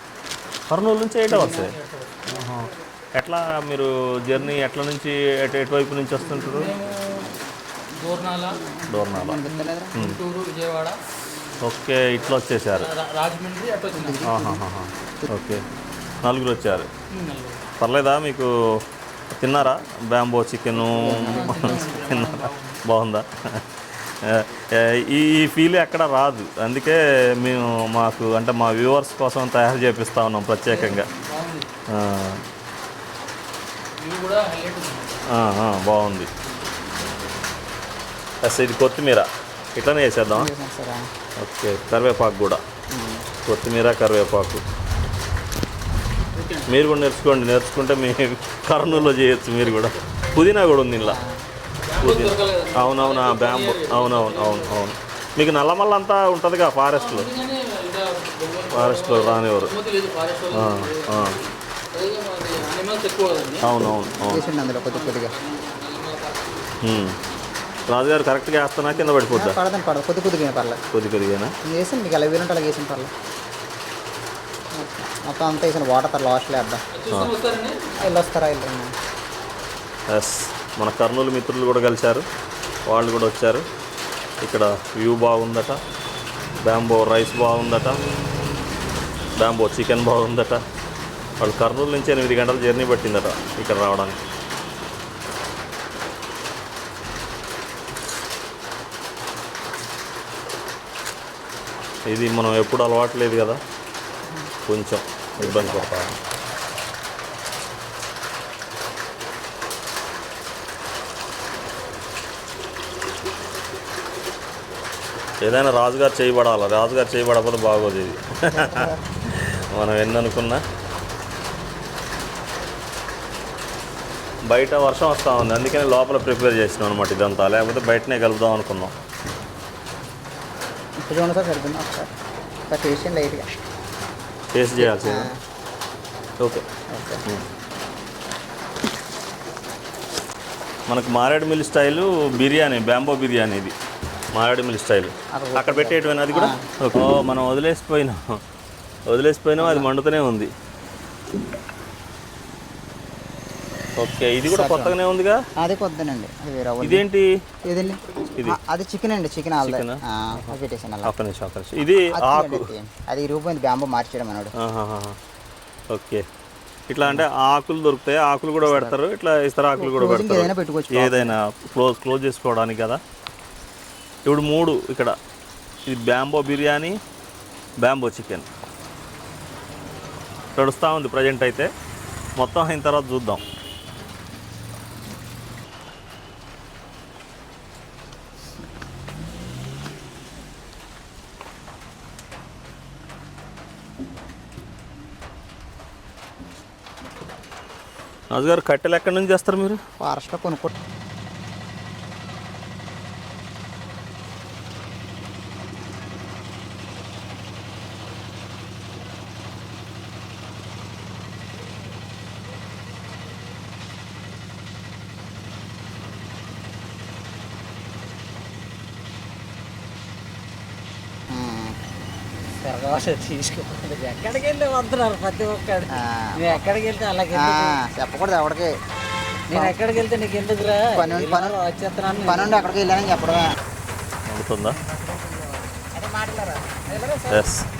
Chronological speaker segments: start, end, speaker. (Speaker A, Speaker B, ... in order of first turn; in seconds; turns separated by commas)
Speaker A: 0.7-1.7, Speaker B: 1.3-2.3, Speaker C: 1.3-1.6, Speaker A: 2.3-6.7, Speaker B: 6.4-7.3, Speaker B: 8.0-8.6, Speaker C: 8.6-10.0, Speaker A: 8.9-9.4, Speaker B: 9.4-11.0, Speaker A: 11.6-12.9, Speaker B: 12.2-14.2, Speaker C: 13.9-14.6, Speaker A: 14.2-15.6, Speaker A: 16.2-16.9, Speaker B: 17.1-17.7, Speaker A: 17.8-31.1, Speaker C: 20.7-22.0, Speaker B: 21.1-22.8, Speaker B: 30.7-31.7, Speaker A: 31.9-32.4, Speaker B: 34.0-35.2, Speaker A: 35.3-36.3, Speaker A: 38.4-40.5, Speaker C: 40.3-41.1, Speaker A: 41.4-42.6, Speaker C: 42.9-43.2, Speaker A: 43.4-44.6, Speaker B: 46.3-46.7, Speaker A: 46.7-51.2, Speaker C: 51.0-51.4, Speaker B: 51.9-54.8, Speaker A: 52.0-57.3, Speaker B: 56.9-66.8, Speaker A: 58.7-59.7, Speaker A: 60.5-61.4, Speaker A: 63.6-64.4, Speaker C: 64.3-65.3, Speaker A: 66.8-67.2, Speaker A: 67.9-69.6, Speaker C: 68.9-70.8, Speaker A: 70.9-71.5, Speaker C: 71.6-73.1, Speaker C: 74.8-76.8, Speaker B: 76.9-77.9, Speaker A: 77.1-77.3, Speaker C: 78.0-78.9, Speaker A: 80.1-82.3, Speaker A: 82.9-83.6, Speaker A: 84.4-85.8, Speaker A: 86.6-88.0, Speaker A: 89.4-90.6, Speaker A: 91.4-94.2, Speaker A: 102.1-103.6, Speaker A: 104.6-106.2, Speaker C: 105.4-105.9, Speaker A: 115.4-120.6, Speaker A: 124.5-128.9, Speaker C: 131.0-132.1, Speaker C: 132.7-133.5, Speaker A: 134.5-135.3, Speaker C: 134.8-135.4, Speaker A: 136.4-136.6, Speaker C: 136.9-137.2, Speaker A: 140.9-143.7, Speaker A: 144.3-148.4, Speaker C: 145.3-146.7, Speaker A: 149.1-150.5, Speaker C: 149.6-149.9, Speaker A: 153.9-155.4, Speaker C: 154.4-154.9, Speaker C: 155.6-157.0, Speaker A: 156.8-157.3, Speaker C: 157.6-161.1, Speaker A: 159.6-160.5, Speaker A: 161.0-162.7, Speaker C: 162.1-164.5, Speaker A: 164.6-165.2, Speaker A: 165.9-166.2, Speaker A: 166.9-173.0, Speaker C: 168.6-168.9, Speaker C: 169.8-171.3, Speaker A: 174.2-175.2, Speaker A: 175.8-177.0, Speaker A: 177.8-178.5, Speaker A: 180.6-181.7, Speaker A: 182.4-183.4, Speaker A: 198.3-199.8, Speaker C: 200.0-200.7, Speaker C: 221.3-221.8, Speaker D: 222.6-227.8, Speaker C: 225.9-226.6, Speaker C: 227.3-228.7, Speaker D: 229.5-232.7, Speaker C: 230.9-231.6, Speaker C: 232.2-233.5, Speaker A: 234.2-234.8, Speaker C: 234.7-237.5, Speaker A: 237.3-237.7